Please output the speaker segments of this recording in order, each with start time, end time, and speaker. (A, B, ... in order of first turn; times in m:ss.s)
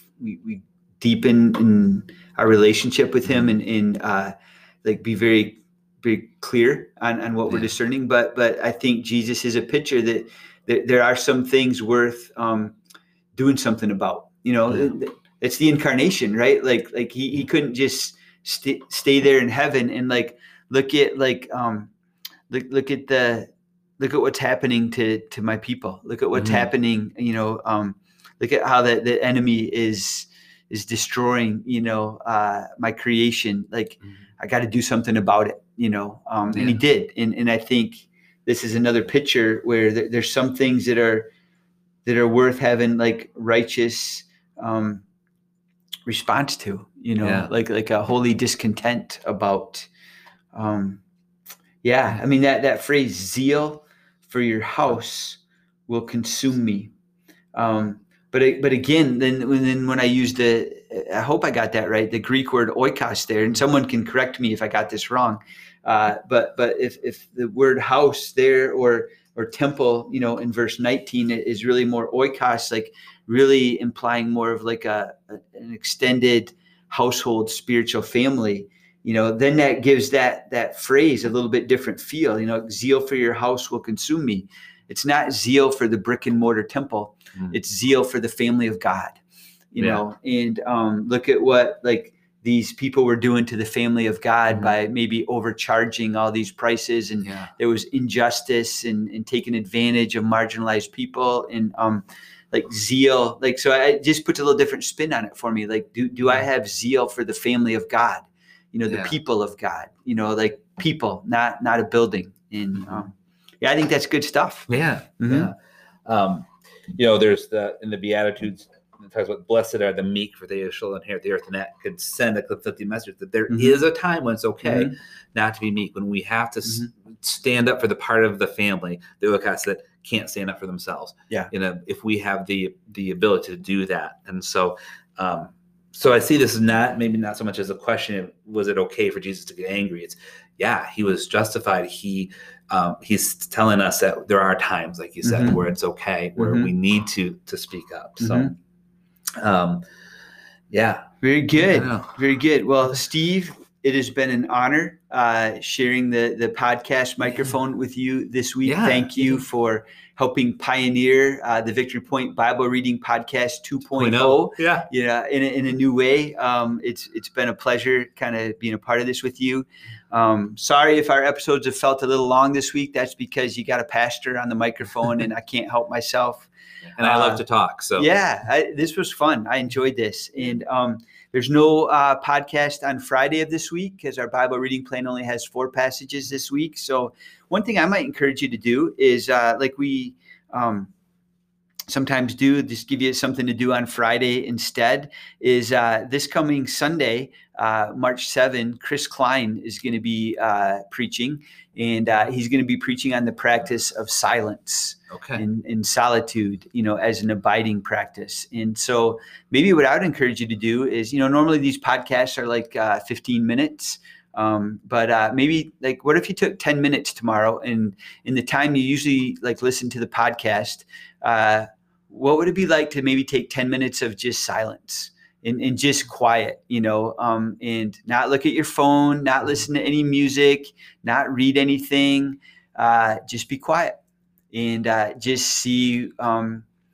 0:00.2-0:12.7 A
0:13.4-0:21.9 A
0:22.5-0:41.3 A
0:26.3-0:26.7 B
0:36.5-0:36.8 B
0:42.0-0:45.0 A
0:46.1-0:49.9 A
0:47.2-0:47.5 B
0:50.5-0:51.0 A
0:51.8-0:56.9 A
0:57.6-1:29.2 A
1:29.7-1:54.7 A
1:37.2-1:37.5 B
1:48.9-1:49.2 B
1:54.7-1:55.6 B
1:55.2-1:55.5 A
1:56.1-2:28.6 B
2:03.5-2:03.8 A
2:04.6-2:04.9 A
2:25.2-2:25.6 A
2:26.4-2:26.7 A
2:28.2-2:28.5 A
2:29.4-2:29.8 B
2:30.7-2:31.0 B
2:31.2-2:57.4 A
2:31.6-2:32.2 B
2:38.6-2:39.4 B
2:44.0-2:44.9 B
2:57.0-2:58.1 B
2:58.0-3:10.9 A
3:11.9-3:54.0 A
3:25.1-3:25.4 B
3:54.5-3:56.6 A